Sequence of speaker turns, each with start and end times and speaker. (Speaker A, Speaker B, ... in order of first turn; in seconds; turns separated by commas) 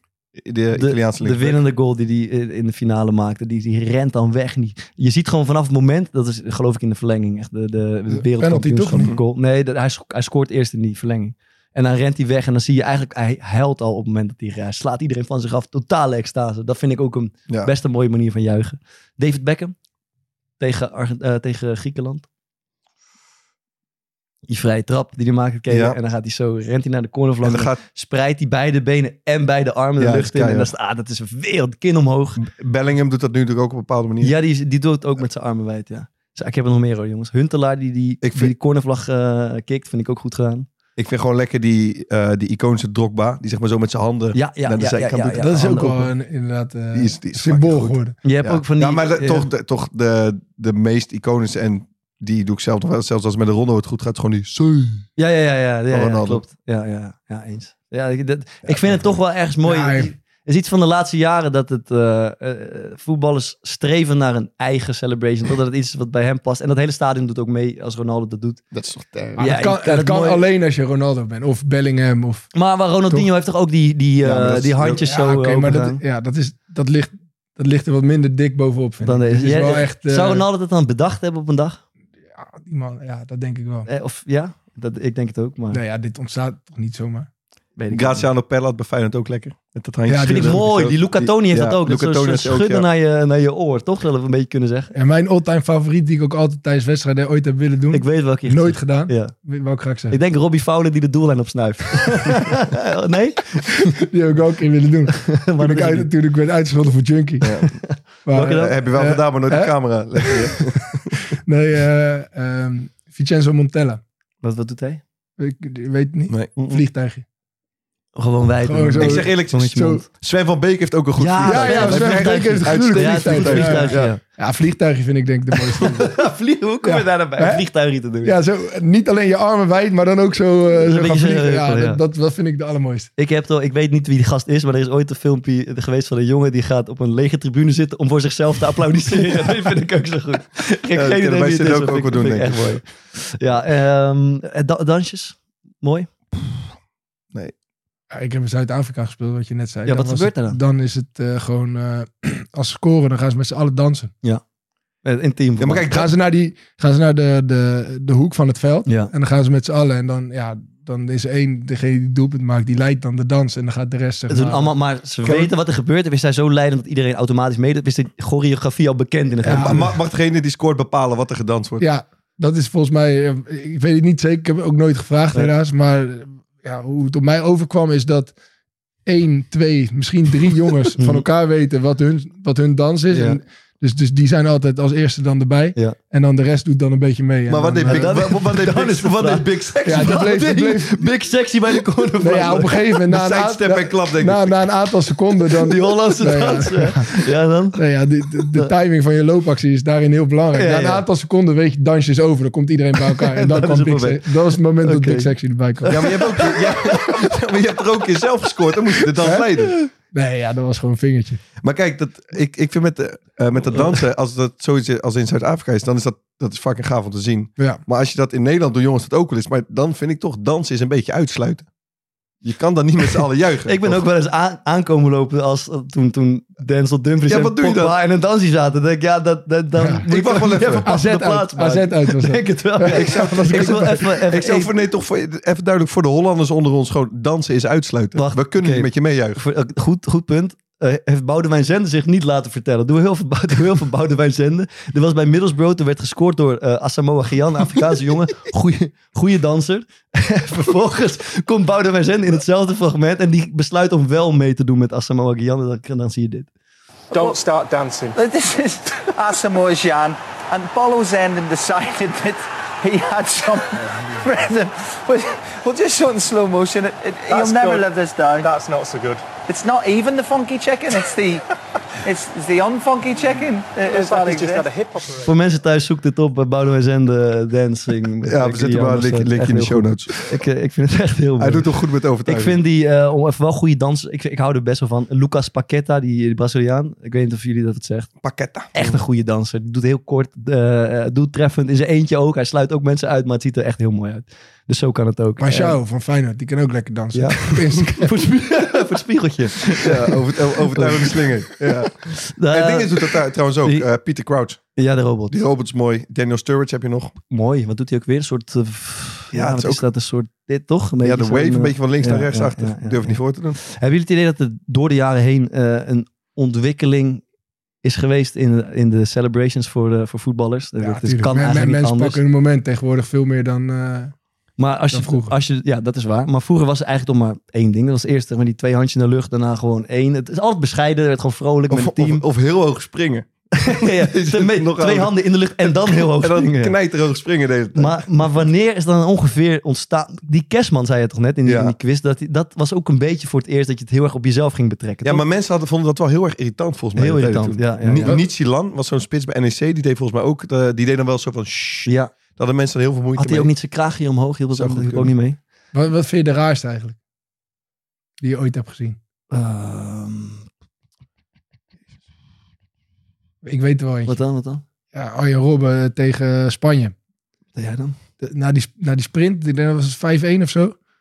Speaker A: 0.4-1.6, Speaker B: 0.7-19.8, Speaker C: 8.1-9.2, Speaker B: 20.6-22.3, Speaker B: 24.5-32.4, Speaker A: 25.7-26.0, Speaker A: 27.4-27.8, Speaker A: 30.0-30.7, Speaker A: 32.4-34.3, Speaker B: 34.2-40.7, Speaker A: 38.2-38.5, Speaker A: 41.0-45.5, Speaker B: 44.3-46.1, Speaker C: 45.4-48.2, Speaker A: 46.9-55.1, Speaker B: 48.2-49.5, Speaker B: 55.2-68.6, Speaker A: 55.9-56.4, Speaker A: 58.7-59.1, Speaker C: 59.6-60.1, Speaker A: 68.7-69.5, Speaker B: 69.4-70.4, Speaker C: 69.4-72.5, Speaker B: 72.5-76.0, Speaker A: 74.3-75.0, Speaker C: 74.8-80.5, Speaker B: 79.0-81.8, Speaker C: 82.4-83.9, Speaker B: 83.9-85.8, Speaker C: 85.7-87.3, Speaker B: 87.8-88.3, Speaker A: 87.9-92.9, Speaker C: 90.1-90.7, Speaker B: 90.2-94.9, Speaker C: 94.9-100.2, Speaker B: 97.9-99.3, Speaker B: 100.1-103.9, Speaker C: 103.7-107.5, Speaker B: 105.3-106.1, Speaker A: 107.4-107.8, Speaker B: 107.8-108.8, Speaker C: 108.3-110.7, Speaker A: 108.4-111.1, Speaker C: 111.3-114.0, Speaker B: 114.4-115.0, Speaker C: 115.4-117.2, Speaker A: 116.3-116.8, Speaker B: 118.2-120.0, Speaker C: 118.7-120.0, Speaker A: 119.0-124.1, Speaker B: 121.2-124.2, Speaker C: 121.4-126.2, Speaker B: 125.8-128.3, Speaker C: 126.8-127.7, Speaker C: 128.2-133.1, Speaker B: 130.7-132.0, Speaker B: 133.2-146.1, Speaker A: 140.9-142.8, Speaker C: 148.1-154.1, Speaker B: 149.9-150.6, Speaker B: 155.0-155.9, Speaker A: 155.6-156.2, Speaker C: 155.9-165.5, Speaker B: 164.3-169.9, Speaker A: 169.4-171.9, Speaker C: 169.5-169.9, Speaker C: 171.8-178.3, Speaker C: 179.1-188.4, Speaker B: 181.0-181.2, Speaker B: 183.1-183.4, Speaker A: 187.5-190.4, Speaker B: 187.9-192.9, Speaker C: 189.8-191.1, Speaker C: 192.2-197.2, Speaker A: 193.1-194.6, Speaker B: 195.6-197.8, Speaker C: 197.8-206.2, Speaker B: 200.6-201.1, Speaker B: 203.2-204.3, Speaker B: 204.8-207.2, Speaker A: 205.9-209.8, Speaker C: 209.2-211.4, Speaker A: 211.6-221.7, Speaker A: 222.4-224.0, Speaker B: 223.7-234.7, Speaker A: 227.3-227.9, Speaker A: 230.1-230.9, Speaker C: 230.8-234.1, Speaker A: 232.9-239.4, Speaker B: 238.2-256.5, Speaker D: 257.1-258.2, Speaker E: 258.1-268.5, Speaker D: 267.3-269.3, Speaker E: 269.5-271.4, Speaker E: 272.1-274.7, Speaker D: 273.8-275.3, Speaker B: 275.2-288.1, Speaker A: 278.2-280.1, Speaker A: 281.4-282.6, Speaker A: 288.2-289.0, Speaker B: 288.7-295.8, Speaker C: 295.4-298.6, Speaker B: 297.1-301.3, Speaker A: 299.8-304.6, Speaker B: 302.2-303.9, Speaker B: 304.8-305.4, Speaker A: 305.3-307.2, Speaker B: 307.3-317.2, Speaker A: 309.3-309.8, Speaker A: 311.0-313.6, Speaker B: 317.8-322.2, Speaker C: 320.8-324.2, Speaker B: 324.6-332.2, Speaker C: 324.9-325.3, Speaker A: 331.7-338.3, Speaker B: 333.6-336.7, Speaker B: 337.8-345.2, Speaker A: 341.4-341.8, Speaker A: 345.0-353.5, Speaker B: 347.0-348.2, Speaker C: 348.0-348.2, Speaker B: 351.9-352.1, Speaker B: 353.2-355.4, Speaker A: 354.5-355.1, Speaker C: 355.7-357.0, Speaker C: 358.2-359.0, Speaker B: 359.3-360.4, Speaker C: 363.4-364.2, Speaker B: 364.1-364.6, Speaker C: 364.9-366.9, Speaker B: 367.6-368.0, Speaker C: 368.2-370.8